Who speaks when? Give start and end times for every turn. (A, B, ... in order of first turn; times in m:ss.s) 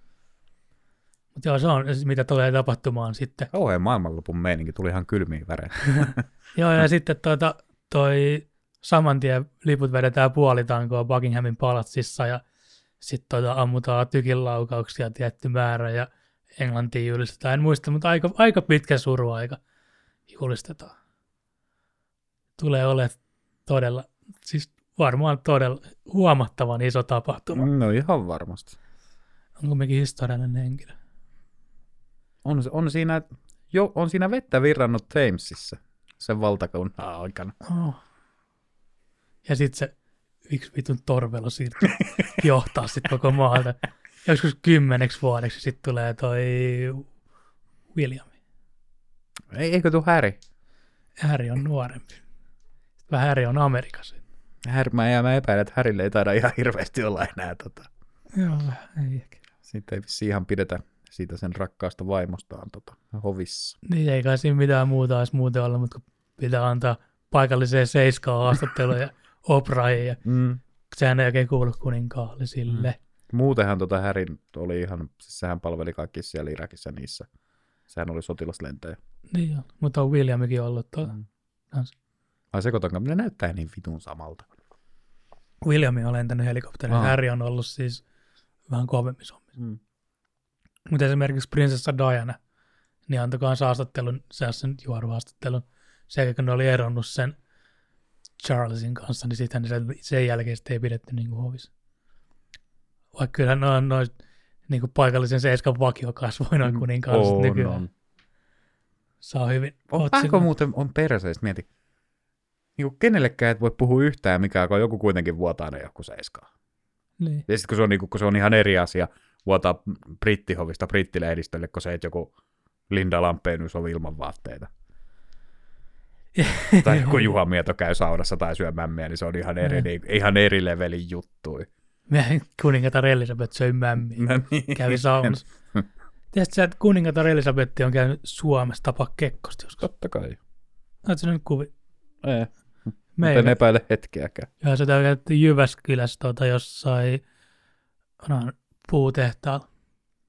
0:01.4-0:03.5 A
0:03.5-0:06.2 B
0:06.0-0:12.4 A
0:13.0-0:19.6 A
0:20.3-0:20.9 A
0:22.6-0:27.7 A
0:27.5-0:28.8 B
0:29.6-0:31.0 A
0:32.4-0:37.6 B
0:37.6-0:38.0 A
0:39.4-0:39.9 A
0:40.5-0:47.1 A
0:47.9-0:48.3 A
0:49.5-0:50.4 B
0:51.2-0:52.2 A
0:53.1-0:54.2 A
0:54.6-0:57.9 B
0:58.3-0:59.4 A
0:59.6-1:03.8 B
1:03.8-1:10.2 A
1:10.2-1:10.6 B
1:10.9-1:13.0 A
1:12.7-1:17.3 B
1:17.9-1:19.0 B
1:19.3-1:21.2 A
1:22.5-1:24.5 B
1:25.6-1:28.0 A
1:26.9-1:27.2 B
1:28.7-1:29.6 A
1:30.9-1:32.4 A
1:33.1-1:37.4 A
1:38.4-1:41.7 A
1:43.1-1:44.1 A
1:44.7-1:47.8 A
1:46.6-1:47.9 B
1:49.2-1:50.5 A
1:49.9-1:51.7 B
1:52.8-1:56.5 B
1:57.2-1:57.5 A
1:57.5-2:02.3 B
2:02.9-2:04.7 B
2:06.4-2:07.3 A
2:06.7-2:11.7 B
2:09.6-2:09.9 A
2:12.1-2:15.4 A
2:14.2-2:15.9 B
2:16.3-2:19.9 A
2:19.8-2:20.4 B
2:21.1-2:21.7 A
2:22.2-2:22.5 B
2:23.2-2:23.6 A
2:23.2-2:24.5 B
2:24.6-2:27.2 A
2:28.2-2:29.7 A